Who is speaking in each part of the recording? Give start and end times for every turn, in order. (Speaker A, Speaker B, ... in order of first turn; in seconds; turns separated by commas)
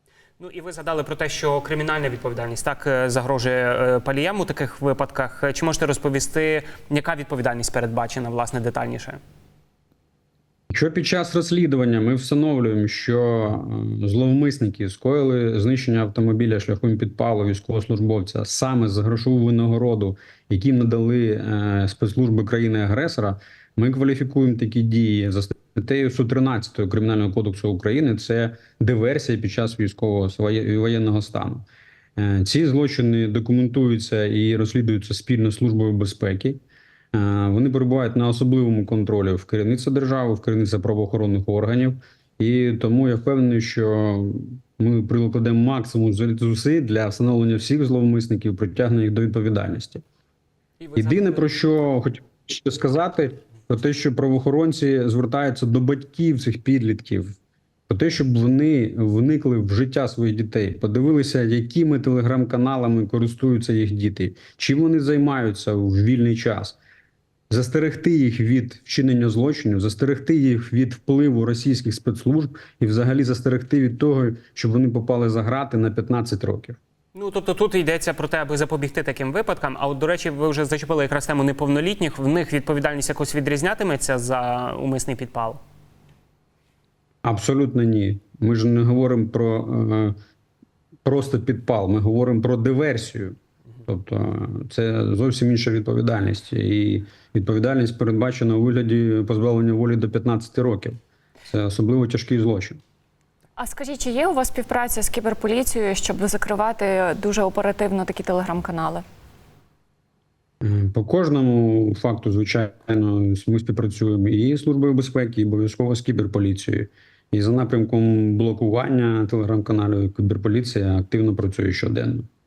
Speaker A: 0.4-9.2, Speaker B: 10.7-31.6, Speaker B: 32.2-36.6, Speaker B: 37.1-50.0, Speaker A: 50.8-51.5, Speaker B: 51.0-57.4, Speaker B: 57.9-66.8, Speaker B: 67.5-76.8, Speaker A: 77.1-85.6, Speaker B: 87.2-90.2, Speaker B: 91.0-102.8, Speaker C: 103.6-109.0, Speaker B: 110.6-122.3